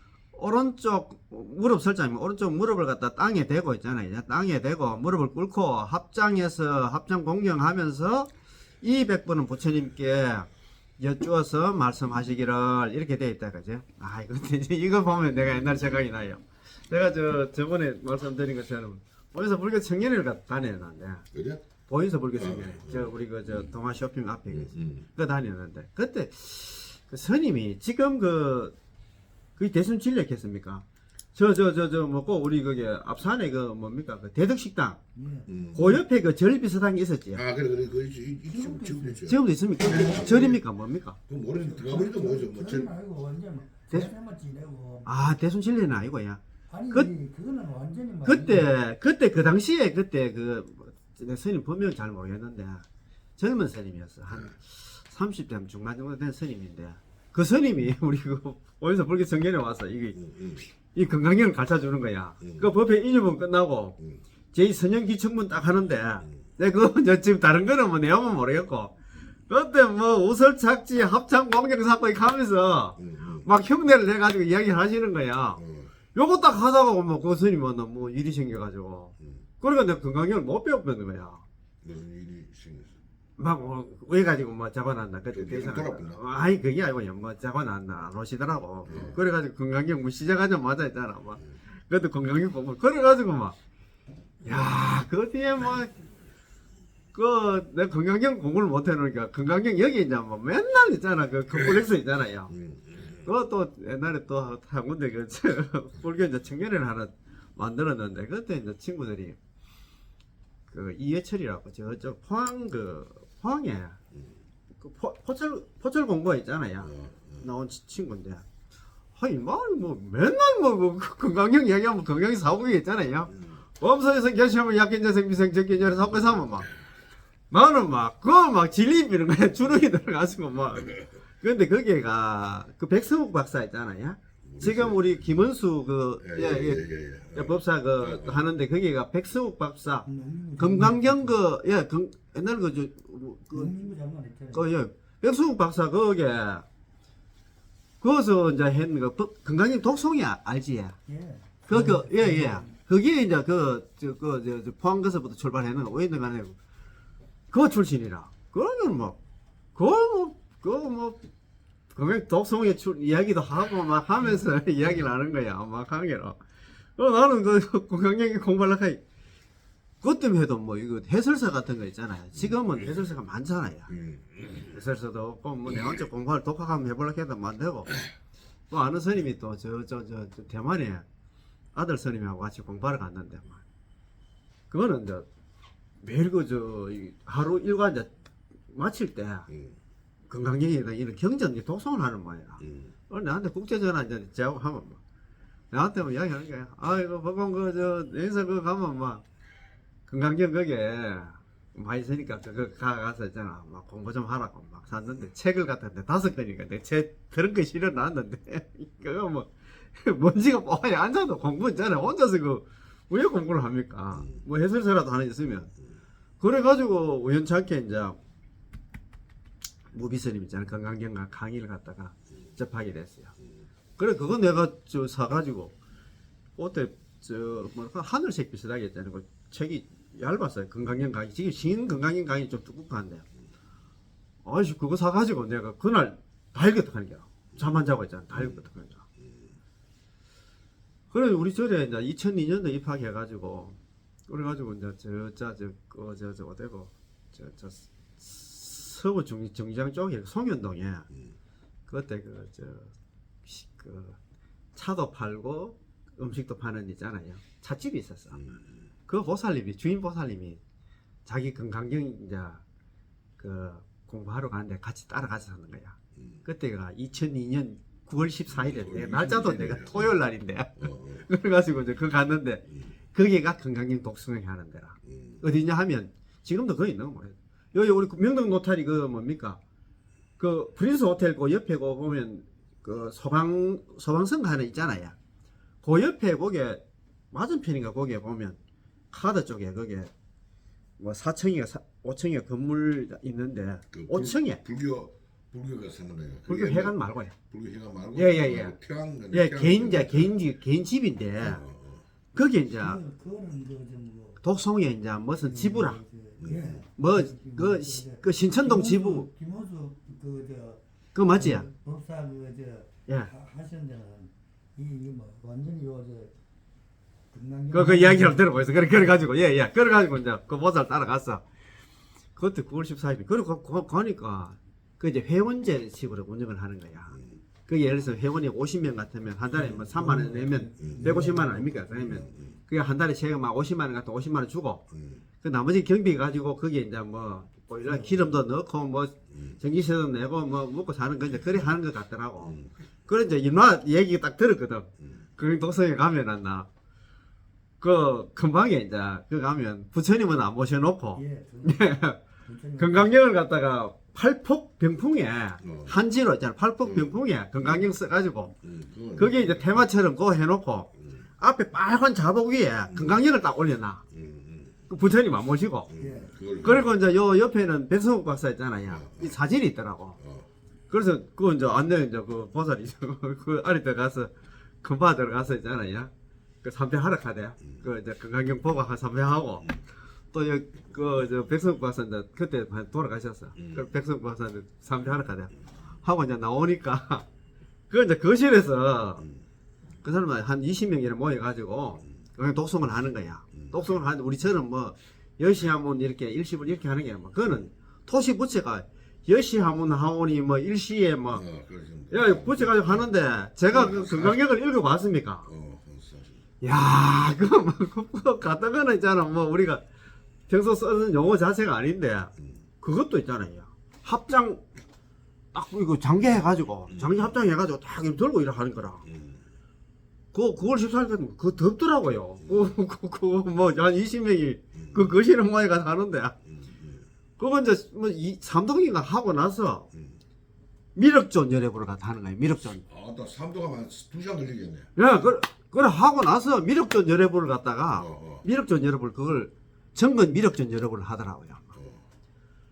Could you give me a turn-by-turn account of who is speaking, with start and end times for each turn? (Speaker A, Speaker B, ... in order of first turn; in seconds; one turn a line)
Speaker A: 0.3-21.3
Speaker B: 15.4-16.2
Speaker B: 21.3-21.6
Speaker A: 21.9-28.8
Speaker B: 22.4-23.6
Speaker B: 24.5-25.1
Speaker A: 29.6-35.0
Speaker C: 35.2-35.5
Speaker B: 35.5-36.0
Speaker A: 35.7-37.5
Speaker B: 37.3-40.6
Speaker C: 38.5-39.3
Speaker A: 39.2-41.2
Speaker C: 39.9-40.2
Speaker B: 41.3-42.9
Speaker C: 41.5-45.3
Speaker A: 45.0-47.1
Speaker C: 46.7-48.7
Speaker A: 48.2-52.9
Speaker A: 53.4-60.2
Speaker B: 60.2-60.6
Speaker A: 60.9-64.0
Speaker B: 62.4-62.7
Speaker A: 64.5-69.0
Speaker A: 69.5-75.6
Speaker B: 73.0-73.5
Speaker B: 75.6-75.9
Speaker A: 76.1-81.4
Speaker B: 81.8-83.0
Speaker A: 83.4-93.6
Speaker B: 85.3-86.2
Speaker B: 88.9-89.2
Speaker A: 94.4-95.9
Speaker A: 97.1-102.5
Speaker B: 102.5-103.0
Speaker A: 103.1-109.4
Speaker A: 110.7-114.0
Speaker A: 114.8-118.4
Speaker B: 117.0-117.3
Speaker A: 119.2-126.7
Speaker A: 127.5-143.7
Speaker B: 134.5-135.4
Speaker B: 136.2-138.4
Speaker C: 140.1-141.4
Speaker C: 143.5-144.7
Speaker A: 144.5-146.7
Speaker A: 148.0-151.0
Speaker C: 151.1-152.7
Speaker A: 151.7-156.6
Speaker A: 157.5-159.2
Speaker A: 159.8-161.2
Speaker A: 161.9-166.4
Speaker A: 167.0-169.0
Speaker A: 170.0-173.9
Speaker B: 173.9-174.7
Speaker A: 174.6-178.0
Speaker A: 178.7-181.1
Speaker A: 181.7-183.6
Speaker A: 184.7-185.3
Speaker A: 186.0-188.1
Speaker A: 188.7-189.5
Speaker A: 190.3-195.0
Speaker A: 195.7-199.2
Speaker A: 200.1-215.7
Speaker A: 216.4-218.2
Speaker A: 219.9-223.3
Speaker A: 224.0-225.8
Speaker A: 226.6-233.2
Speaker A: 234.4-239.0
Speaker A: 241.1-251.1
Speaker A: 251.9-252.9
Speaker A: 253.4-254.2
Speaker A: 254.7-258.4
Speaker A: 259.1-260.6
Speaker A: 261.3-262.6
Speaker A: 263.4-279.6
Speaker B: 268.5-270.1
Speaker B: 270.8-271.2
Speaker B: 275.1-275.4
Speaker A: 280.4-285.1
Speaker A: 285.8-286.8
Speaker A: 287.3-288.6
Speaker A: 289.1-290.1
Speaker A: 291.0-294.6
Speaker B: 293.9-297.0
Speaker A: 296.5-297.4
Speaker B: 297.5-300.4
Speaker A: 298.1-298.8
Speaker A: 299.3-301.6
Speaker B: 301.4-302.0
Speaker A: 302.3-303.0
Speaker C: 302.7-304.4
Speaker A: 304.4-306.0
Speaker C: 305.4-316.3
Speaker B: 306.4-306.8
Speaker A: 307.0-309.3
Speaker A: 311.1-311.7
Speaker C: 317.3-319.2
Speaker A: 317.7-321.4
Speaker A: 322.4-334.9
Speaker C: 329.5-332.2
Speaker B: 330.8-331.4
Speaker B: 332.0-332.4
Speaker B: 334.9-335.2
Speaker A: 335.4-346.7
Speaker C: 337.9-338.1
Speaker A: 347.8-352.2
Speaker C: 351.2-351.9
Speaker C: 352.4-353.1
Speaker A: 352.8-358.6
Speaker B: 355.6-355.9
Speaker B: 356.9-357.1
Speaker B: 358.6-359.9
Speaker A: 359.1-364.0
Speaker B: 362.9-363.2
Speaker B: 364.1-364.8
Speaker A: 364.9-366.0
Speaker B: 365.9-366.9
Speaker C: 366.0-366.3
Speaker A: 366.6-370.2
Speaker B: 368.9-369.3
Speaker B: 370.2-370.5
Speaker A: 370.9-376.1
Speaker A: 376.6-379.8
Speaker A: 380.3-387.2
Speaker A: 387.9-389.2
Speaker A: 390.0-401.4
Speaker B: 401.3-403.1
Speaker A: 402.1-405.5
Speaker B: 403.7-404.4
Speaker B: 405.5-406.4
Speaker A: 406.6-409.8
Speaker A: 410.5-414.6
Speaker A: 415.5-419.1
Speaker B: 416.9-417.2
Speaker B: 419.1-419.4
Speaker A: 420.3-426.4
Speaker B: 422.5-422.7
Speaker B: 426.6-427.0
Speaker A: 427.4-429.9
Speaker A: 430.9-432.8
Speaker B: 432.9-434.9
Speaker A: 435.0-441.7
Speaker B: 438.0-438.4
Speaker B: 441.8-442.0